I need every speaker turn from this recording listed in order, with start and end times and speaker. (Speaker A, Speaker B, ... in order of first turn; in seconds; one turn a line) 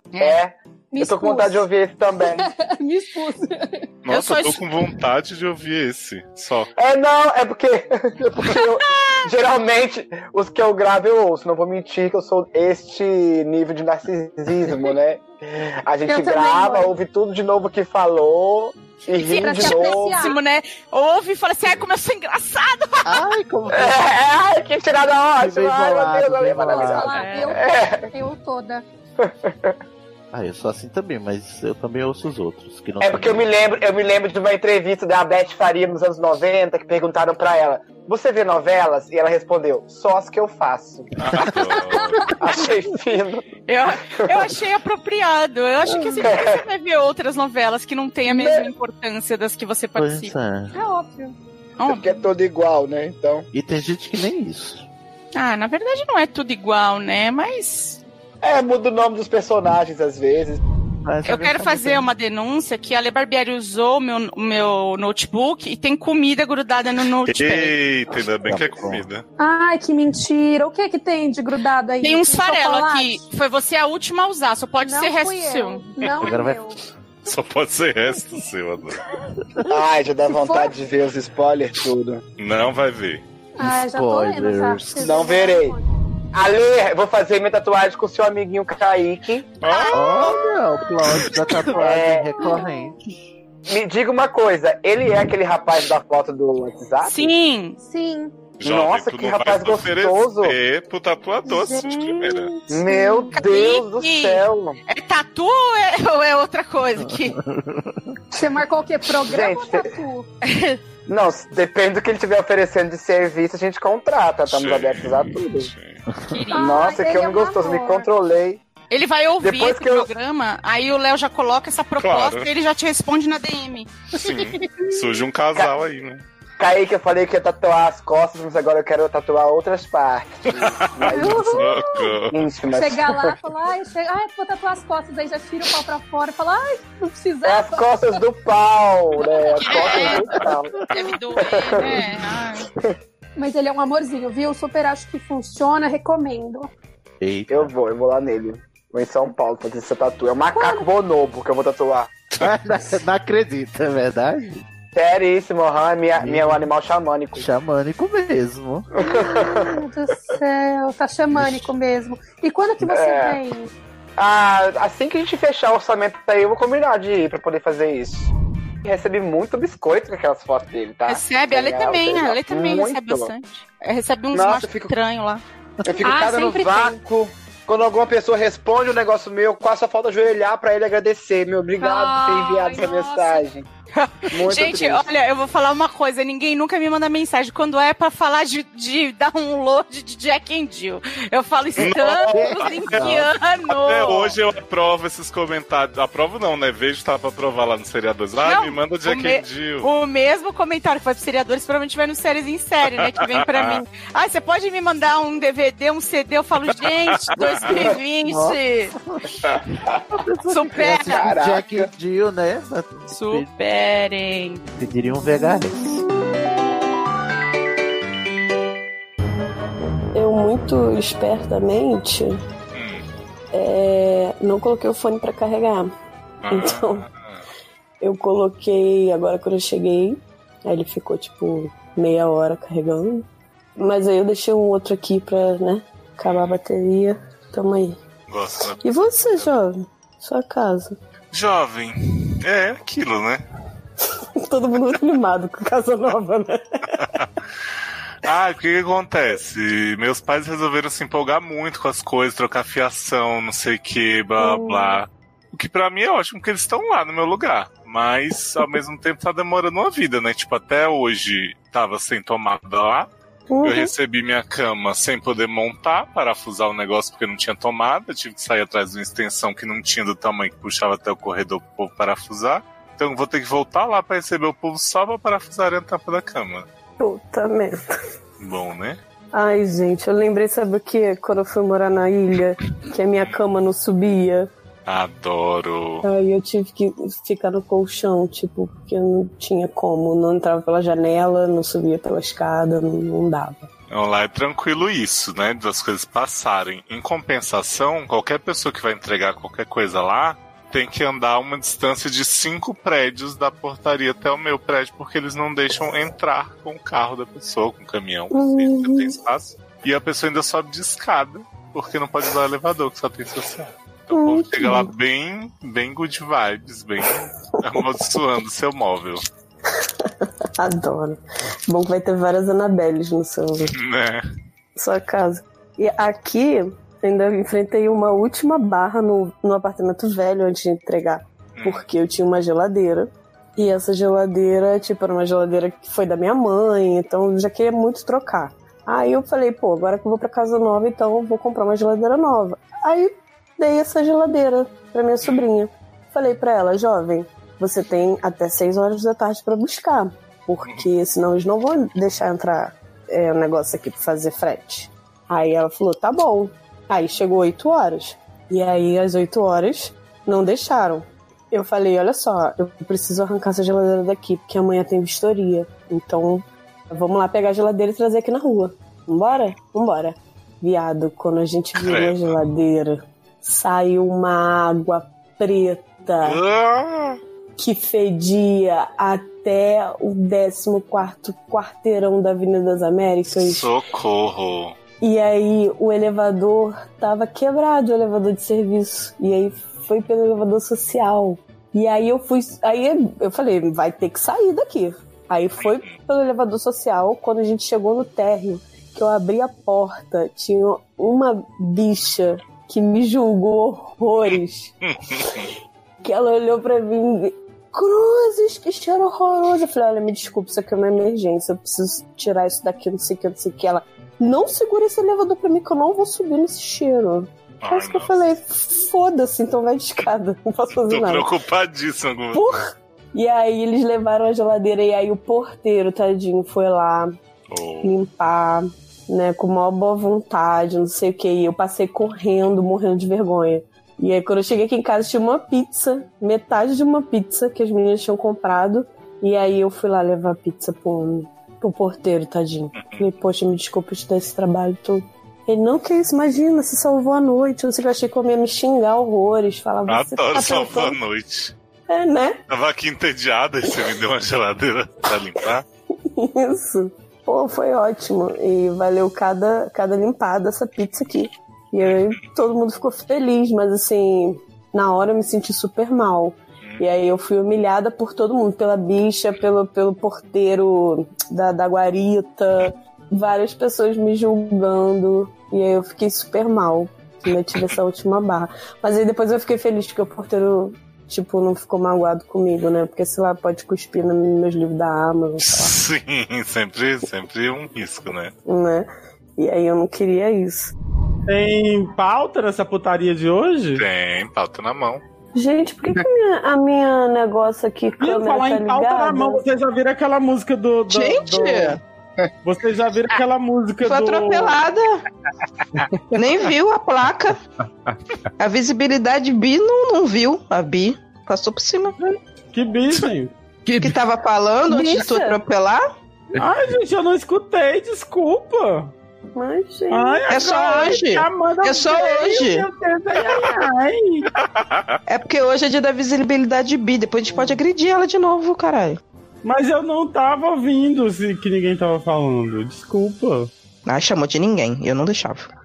Speaker A: 0.1-0.4
Speaker B: 0.2-2.5
Speaker C: 0.9-1.7
Speaker C: 2.2-3.9
Speaker D: 4.0-6.7
Speaker A: 4.1-4.6
Speaker B: 6.8-20.3
Speaker C: 16.0-16.9
Speaker A: 19.1-23.2
Speaker C: 19.3-20.4
Speaker E: 23.0-24.1
Speaker B: 23.7-28.1
Speaker E: 25.4-27.2
Speaker C: 26.5-28.8
Speaker A: 27.1-27.5
Speaker B: 29.2-29.7
Speaker E: 30.3-33.5
Speaker B: 33.0-41.1
Speaker D: 41.2-42.3
Speaker B: 42.4-43.4
Speaker A: 43.7-50.3
Speaker B: 44.1-44.5
Speaker B: 46.2-46.6
Speaker B: 48.3-48.7
Speaker E: 49.9-50.7
Speaker C: 50.7-51.3
Speaker A: 51.8-52.1
Speaker B: 51.9-53.5
Speaker E: 53.5-54.9
Speaker A: 55.3-58.0
Speaker B: 58.4-60.6
Speaker E: 61.0-62.1
Speaker A: 61.2-67.7
Speaker D: 67.2-69.2
Speaker E: 68.4-69.0
Speaker C: 69.4-73.2
Speaker A: 72.0-75.9
Speaker C: 74.8-76.8
Speaker E: 76.2-76.6
Speaker D: 77.2-79.0
Speaker B: 79.7-82.2
Speaker C: 80.3-80.8
Speaker D: 82.4-83.2
Speaker C: 83.5-85.9
Speaker E: 83.6-85.2
Speaker B: 85.0-85.8
Speaker B: 86.3-89.5
Speaker D: 89.6-90.4
Speaker A: 89.6-90.4
Speaker E: 89.9-93.2
Speaker B: 91.8-92.5
Speaker C: 92.4-92.8
Speaker B: 93.7-97.3
Speaker A: 97.0-97.8
Speaker C: 97.8-98.3
Speaker D: 98.6-102.5
Speaker B: 98.6-100.6
Speaker C: 101.4-103.3
Speaker B: 102.7-104.8
Speaker A: 103.3-107.4
Speaker E: 107.0-108.2
Speaker C: 108.3-110.3
Speaker B: 109.2-109.9
Speaker A: 110.5-110.8
Speaker B: 111.1-115.7
Speaker D: 114.5-116.0
Speaker E: 116.1-116.4
Speaker A: 116.3-116.7
Speaker C: 116.5-118.1
Speaker B: 116.5-118.6
Speaker A: 118.9-124.6
Speaker B: 119.4-120.1
Speaker D: 122.0-122.5
Speaker D: 124.1-126.2
Speaker B: 126.6-131.7
Speaker D: 130.6-132.5
Speaker C: 131.1-132.1
Speaker B: 132.3-133.3
Speaker C: 132.7-137.9
Speaker B: 137.4-142.0
Speaker A: 139.6-142.7
Speaker C: 143.4-146.7
Speaker E: 147.2-147.7
Speaker B: 147.5-152.1
Speaker C: 150.5-150.9
Speaker E: 152.4-154.6
Speaker B: 154.9-157.5
Speaker E: 156.2-156.6
Speaker E: 157.3-158.9
Speaker B: 158.9-159.8
Speaker C: 159.0-163.7
Speaker E: 161.3-161.6
Speaker B: 162.8-163.4
Speaker B: 164.2-168.3
Speaker B: 168.8-173.3
Speaker A: 171.1-175.4
Speaker B: 174.3-174.9
Speaker B: 175.8-183.7
Speaker C: 176.0-177.0
Speaker C: 181.8-183.4
Speaker A: 183.9-194.3
Speaker B: 184.3-185.1
Speaker D: 191.8-199.9
Speaker E: 192.3-193.3
Speaker A: 198.4-208.9
Speaker D: 202.8-203.8
Speaker D: 207.0-207.8
Speaker E: 207.4-209.2
Speaker E: 210.1-213.5
Speaker A: 210.5-211.3
Speaker B: 211.0-211.9
Speaker A: 213.1-214.6
Speaker E: 214.8-216.0
Speaker F: 220.1-222.4
Speaker D: 222.7-223.0
Speaker F: 223.5-225.9
Speaker D: 226.4-227.4
Speaker F: 226.4-227.1
Speaker F: 228.0-233.2
Speaker F: 233.8-238.0
Speaker D: 236.3-236.6
Speaker D: 238.3-239.5
Speaker F: 238.8-240.9
Speaker D: 241.3-243.4
Speaker F: 244.4-246.6
Speaker D: 247.0-247.3
Speaker D: 248.2-263.1
Speaker F: 254.4-255.0
Speaker F: 263.5-263.9
Speaker D: 263.6-276.6
Speaker F: 277.0-277.8
Speaker D: 278.4-279.0
Speaker F: 279.3-284.5
Speaker D: 284.9-286.1
Speaker F: 286.0-293.7
Speaker D: 293.9-319.2
Speaker F: 308.3-309.2
Speaker F: 314.1-314.9
Speaker F: 320.0-323.7
Speaker D: 323.7-324.2
Speaker F: 324.8-376.4
Speaker D: 331.6-331.8
Speaker D: 371.8-372.4
Speaker D: 376.2-377.2
Speaker F: 377.6-383.7
Speaker D: 383.3-384.8
Speaker F: 385.0-404.7
Speaker D: 395.6-396.0
Speaker D: 404.9-405.5
Speaker F: 406.0-421.3
Speaker D: 417.6-418.1
Speaker D: 420.8-422.6
Speaker F: 422.3-427.1
Speaker D: 427.5-427.9
Speaker F: 427.8-451.0
Speaker D: 442.7-443.1
Speaker D: 449.9-451.5
Speaker F: 451.9-452.4
Speaker D: 452.5-455.6
Speaker F: 456.2-485.8
Speaker D: 461.8-462.2
Speaker D: 466.6-466.9
Speaker D: 485.4-488.3
Speaker F: 488.4-490.7
Speaker G: 491.3-493.8
Speaker D: 493.7-495.0
Speaker F: 495.3-499.5
Speaker G: 498.0-501.8
Speaker H: 500.9-501.8
Speaker G: 502.4-504.6
Speaker H: 503.8-505.0
Speaker H: 506.1-507.4
Speaker H: 508.4-511.9
Speaker G: 512.0-513.3
Speaker H: 513.7-515.8
Speaker F: 514.7-515.4
Speaker G: 516.3-518.9
Speaker F: 519.4-520.3
Speaker G: 519.9-524.3
Speaker H: 520.3-522.6
Speaker F: 523.1-523.6
Speaker D: 524.4-525.0
Speaker H: 525.1-529.0
Speaker G: 529.4-533.5
Speaker H: 533.9-535.5